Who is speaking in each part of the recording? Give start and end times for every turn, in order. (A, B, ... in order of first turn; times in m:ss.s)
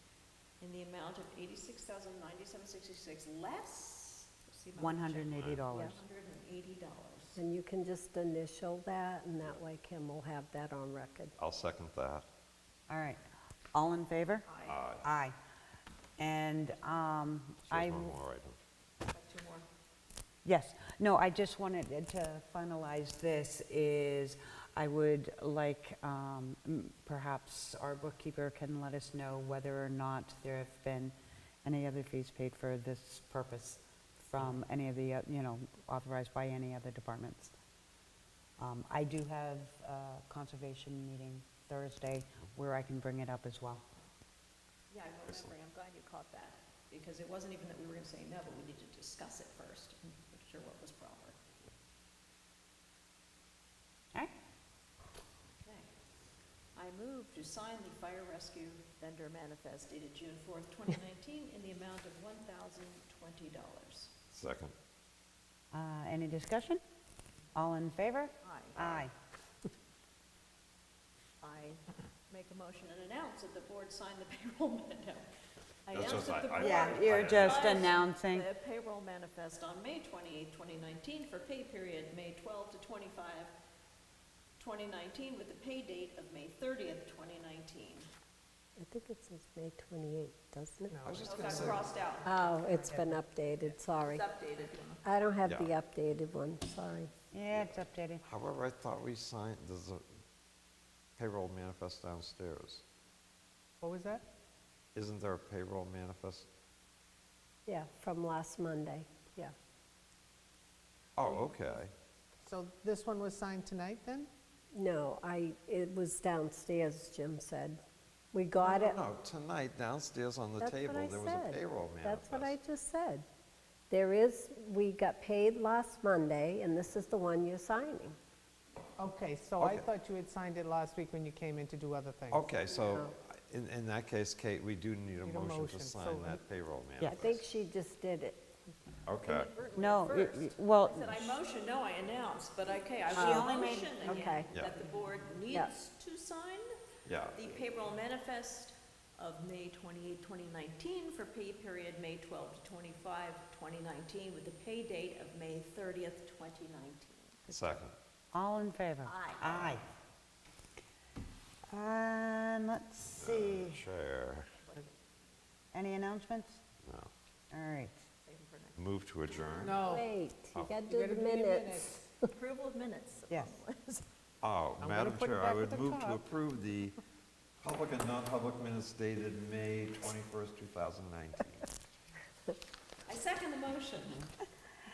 0:00.6-0:07.4 A
0:04.8-0:06.0 B
0:05.4-0:05.6 C
0:07.4-0:11.4 D
0:11.4-0:12.3 C
0:12.9-0:13.2 B
0:13.7-0:14.5 B
0:14.5-0:14.8 A
0:14.6-0:15.0 C
0:15.0-0:15.4 B
0:16.2-0:18.2 B
0:17.7-0:18.6 C
0:19.1-0:19.7 A
0:20.4-0:37.5 B
0:38.6-0:43.8 B
0:44.9-0:51.4 A
0:55.6-0:55.9 A
0:56.8-1:04.1 A
1:04.3-1:04.7 C
1:05.7-1:06.8 B
1:07.6-1:09.1 B
1:08.4-1:08.8 A
1:08.8-1:09.1 C
1:11.4-1:15.3 A
1:15.8-1:23.5 A
1:15.9-1:17.9 C
1:16.6-1:18.5 B
1:24.6-1:28.1 A
1:28.8-1:31.0 D
1:30.9-1:31.8 E
1:31.0-1:31.8 C
1:31.2-1:32.4 A
1:32.2-1:34.2 D
1:32.7-1:33.2 E
1:34.0-1:35.0 A
1:35.0-1:37.1 D
1:35.4-1:35.7 C
1:37.3-1:38.2 B
1:37.5-1:40.0 C
1:41.2-1:42.8 C
1:43.8-1:44.2 E
1:45.0-1:46.5 C
1:47.7-1:49.5 D
1:51.2-1:51.9 C
1:52.4-1:54.3 E
1:54.7-1:57.8 D
1:58.3-1:59.0 D
1:58.6-2:02.6 C
2:00.6-2:03.2 D
2:03.9-2:08.2 D
2:09.0-2:12.5 E
2:09.6-2:09.9 C
2:12.3-2:17.4 C
2:12.8-2:13.1 D
2:15.2-2:16.4 E
2:17.1-2:18.5 D
2:19.1-2:19.5 C
2:19.2-2:26.7 A
2:19.8-2:21.4 B
2:23.1-2:24.2 B
2:23.1-2:23.5 D
2:24.0-2:24.5 D
2:27.0-2:27.5 C
2:27.3-2:37.5 A
2:37.5-2:38.0 C
2:38.3-2:39.8 B
2:39.0-2:39.8 A
2:41.7-2:43.8 B
2:43.2-2:44.5 C
2:44.6-2:44.9 A
2:45.7-2:46.6 B
2:46.9-2:47.1 C
2:47.5-2:48.0 B
2:48.2-2:48.9 A
2:48.8-2:49.8 C
2:49.6-2:50.1 E
2:49.8-2:52.3 D
2:50.5-2:50.8 C
2:50.9-2:52.0 E
2:52.3-2:54.1 A
2:53.3-2:53.6 B
2:54.4-2:57.0 C
2:54.8-2:56.2 E
2:57.6-3:01.7 C
3:03.1-3:04.3 A